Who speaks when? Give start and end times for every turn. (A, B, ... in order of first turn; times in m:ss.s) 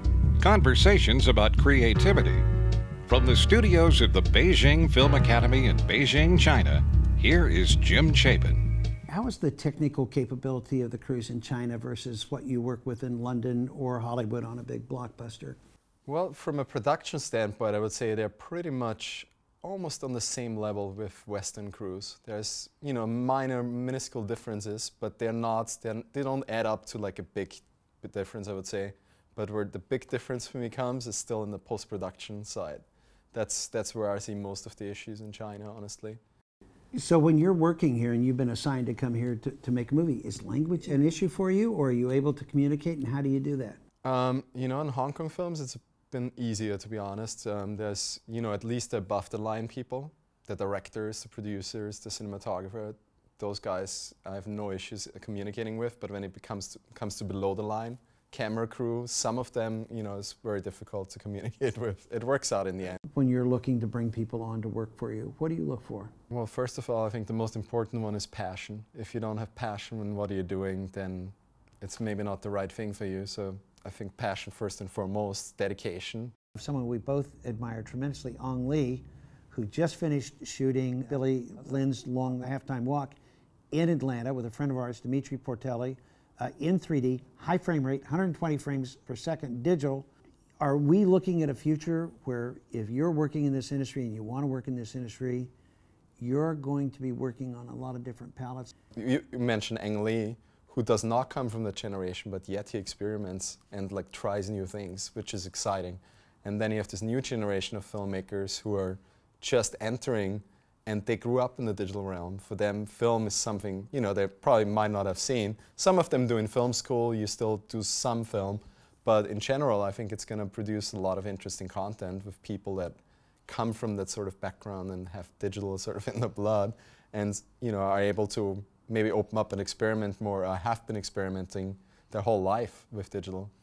0:00.4-0:02.4 A
0:03.1-0:08.7 A
0:09.1-0:15.6 B
0:16.1-0:36.2 C
0:36.9-0:43.8 B
0:44.0-1:03.0 C
1:03.1-1:06.1 B
1:06.3-1:16.3 C
1:16.6-1:23.2 B
1:23.7-1:30.1 B
1:30.6-1:35.5 B
1:36.2-1:38.7 B
1:39.0-2:13.5 C